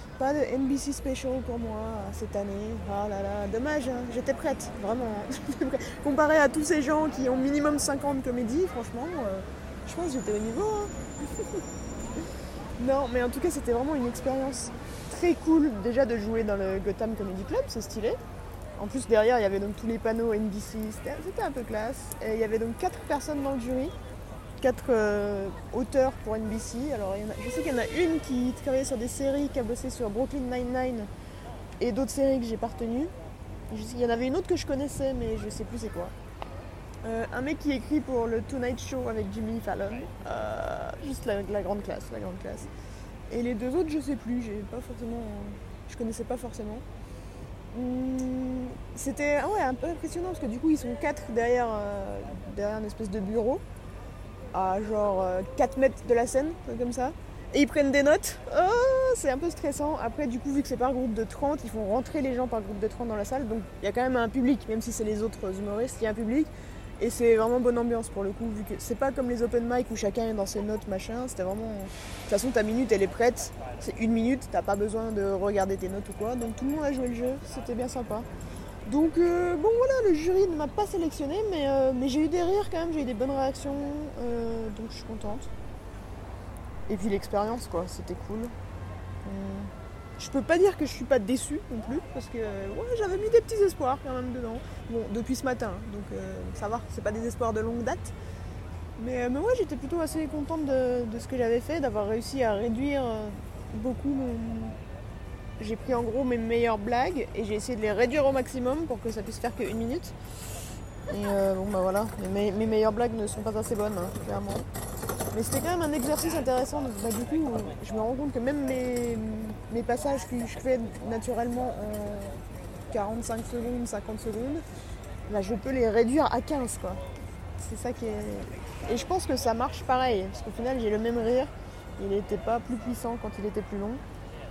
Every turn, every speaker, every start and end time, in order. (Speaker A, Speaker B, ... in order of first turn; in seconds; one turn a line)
Speaker A: 0.2-10.9
Speaker A: 12.8-18.2
Speaker A: 18.8-23.9
Speaker A: 24.6-31.1
Speaker A: 31.8-33.1
Speaker A: 33.7-36.1
Speaker A: 37.0-42.7
Speaker A: 43.3-46.8
Speaker A: 47.7-53.6
Speaker A: 54.5-78.3
Speaker A: 78.8-85.5
Speaker A: 86.9-88.5
Speaker A: 89.2-98.1
Speaker A: 99.0-104.8
Speaker A: 105.6-110.1
Speaker A: 111.1-114.6
Speaker A: 115.3-122.3
Speaker A: 122.9-124.6
Speaker A: 125.3-127.0
Speaker A: 127.6-134.0